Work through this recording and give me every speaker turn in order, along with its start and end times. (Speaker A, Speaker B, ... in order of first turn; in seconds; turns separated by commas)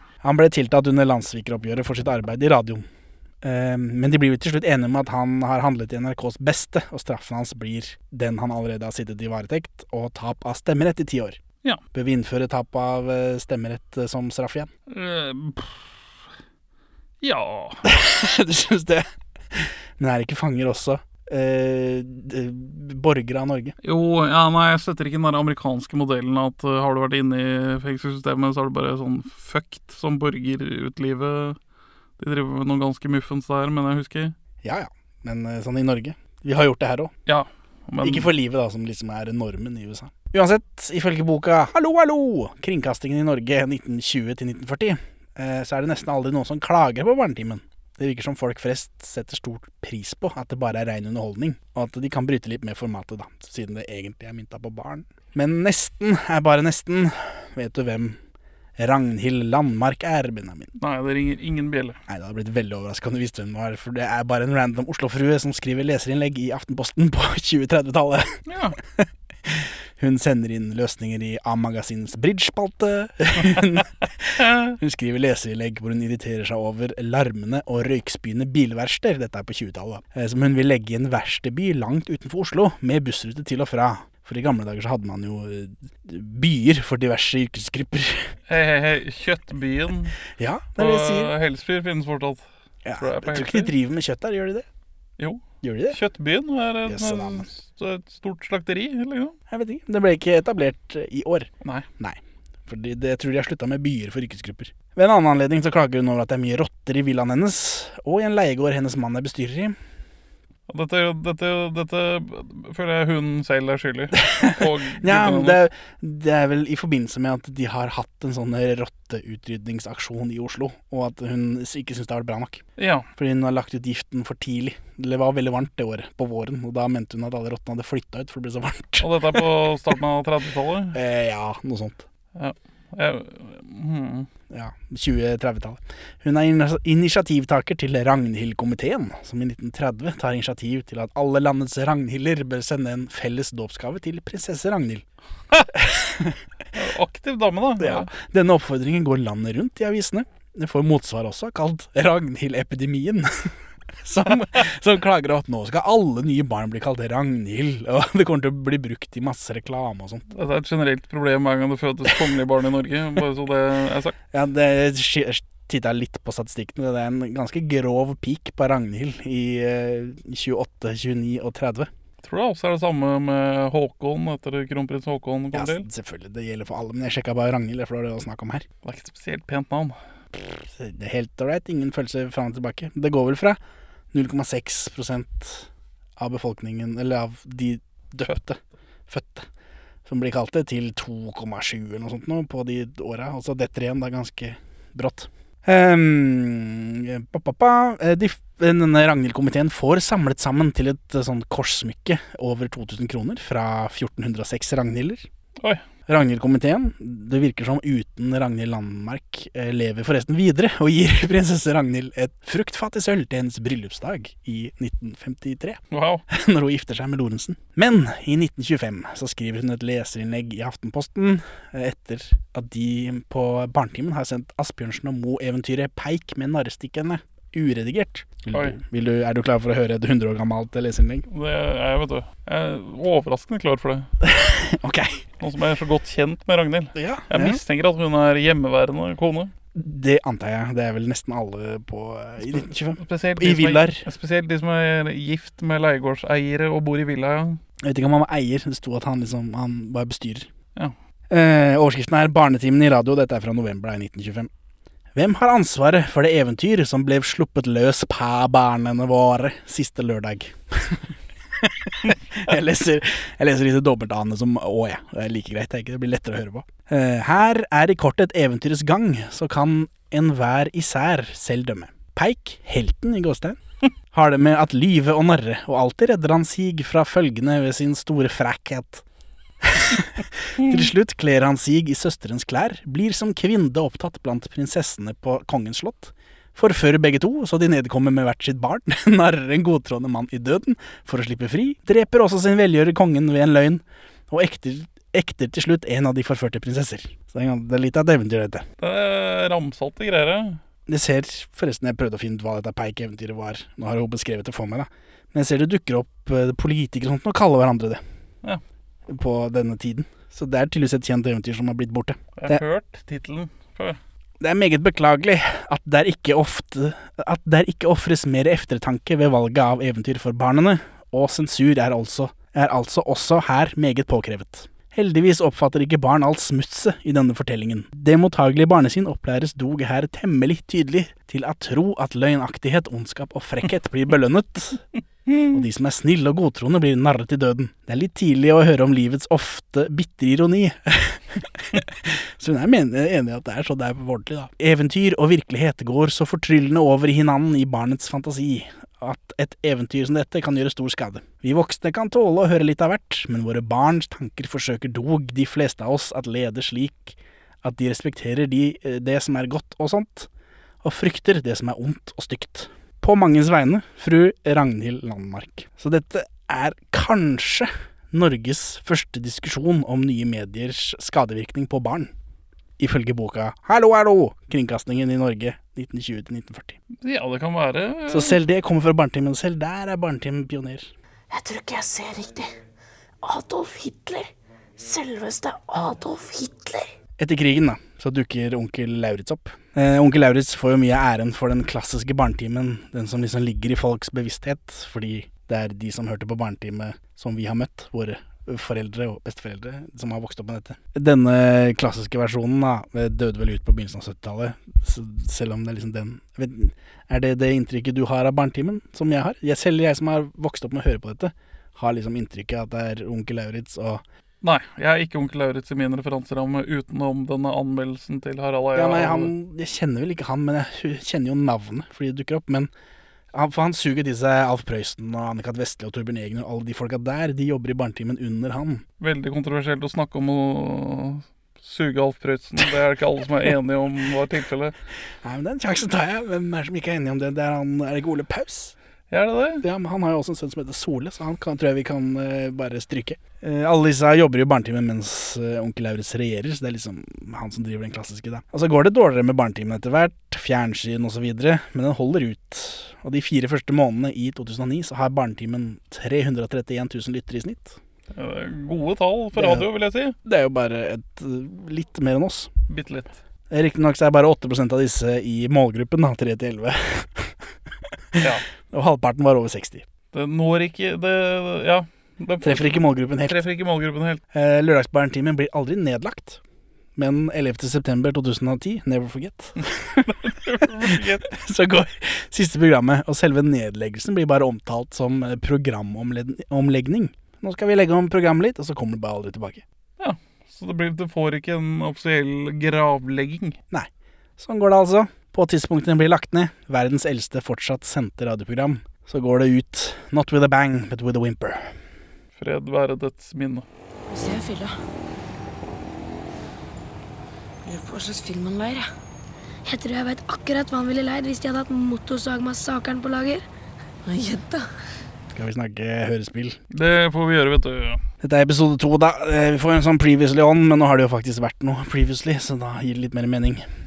Speaker A: 0.2-2.9, Speaker A: 3.4-11.4, Speaker A: 11.9-14.7, Speaker B: 14.9-15.8, Speaker B: 17.2-17.8, Speaker A: 17.8-23.7, Speaker B: 23.8-31.6, Speaker B: 32.2-34.3, Speaker A: 34.6-37.1, Speaker B: 37.3-38.3, Speaker A: 38.0-58.2, Speaker A: 58.8-60.7, Speaker B: 60.8-62.0, Speaker A: 62.1-88.3, Speaker B: 68.5-68.8, Speaker B: 74.4-74.7, Speaker B: 88.5-90.2, Speaker A: 90.4-91.3, Speaker B: 90.8-92.4, Speaker A: 92.8-94.7, Speaker B: 93.0-93.7, Speaker B: 95.2-99.3, Speaker A: 95.6-96.0, Speaker A: 96.8-97.5, Speaker A: 99.5-109.8, Speaker B: 110.7-115.6, Speaker A: 114.2-122.6, Speaker B: 122.8-123.1, Speaker A: 123.2-129.4, Speaker B: 129.0-130.9, Speaker A: 130.9-132.0, Speaker B: 132.3-134.3, Speaker A: 134.5-145.0, Speaker A: 145.7-146.4, Speaker B: 146.7-148.1, Speaker A: 147.8-153.5, Speaker A: 154.0-160.2, Speaker B: 160.3-164.2, Speaker A: 164.3-171.9, Speaker B: 172.2-175.8, Speaker A: 175.5-178.6, Speaker B: 178.8-180.0, Speaker A: 180.3-183.6, Speaker A: 184.1-189.5, Speaker A: 190.1-205.3, Speaker A: 206.1-231.3, Speaker B: 215.9-216.2, Speaker B: 231.3-234.1, Speaker A: 234.2-235.2, Speaker B: 235.4-239.5, Speaker A: 236.9-237.6, Speaker A: 239.7-244.0, Speaker B: 242.4-247.6, Speaker A: 247.8-250.5, Speaker A: 251.3-254.5, Speaker A: 255.1-261.1, Speaker A: 261.6-273.6, Speaker A: 274.1-279.0, Speaker A: 279.6-298.6, Speaker B: 298.8-300.6, Speaker A: 300.9-308.0, Speaker A: 309.1-312.6, Speaker B: 312.4-314.0, Speaker A: 314.4-334.8, Speaker B: 335.3-335.6, Speaker A: 335.5-360.3, Speaker A: 360.8-372.1, Speaker A: 372.8-376.8, Speaker B: 377.0-378.4, Speaker A: 378.1-380.9, Speaker C: 381.3-382.5, Speaker C: 383.2-386.9, Speaker A: 387.2-414.0, Speaker B: 414.4-419.3, Speaker A: 418.7-422.7, Speaker A: 423.3-428.8, Speaker B: 429.0-434.7, Speaker A: 435.2-438.7, Speaker B: 439.1-439.6, Speaker A: 439.6-457.8, Speaker B: 458.1-460.1, Speaker A: 459.4-459.7, Speaker A: 460.2-462.5, Speaker B: 462.7-463.2, Speaker A: 463.5-467.3, Speaker A: 468.1-469.8, Speaker B: 470.1-474.2, Speaker A: 472.4-473.4, Speaker A: 474.3-476.4, Speaker A: 476.9-489.6, Speaker B: 480.0-481.3, Speaker B: 490.0-493.6, Speaker A: 493.7-501.8, Speaker B: 502.4-503.6, Speaker C: 504.1-504.8, Speaker C: 507.6-508.9, Speaker D: 509.6-513.4, Speaker C: 514.0-514.7, Speaker A: 515.3-516.6, Speaker B: 516.7-518.0, Speaker A: 518.2-523.6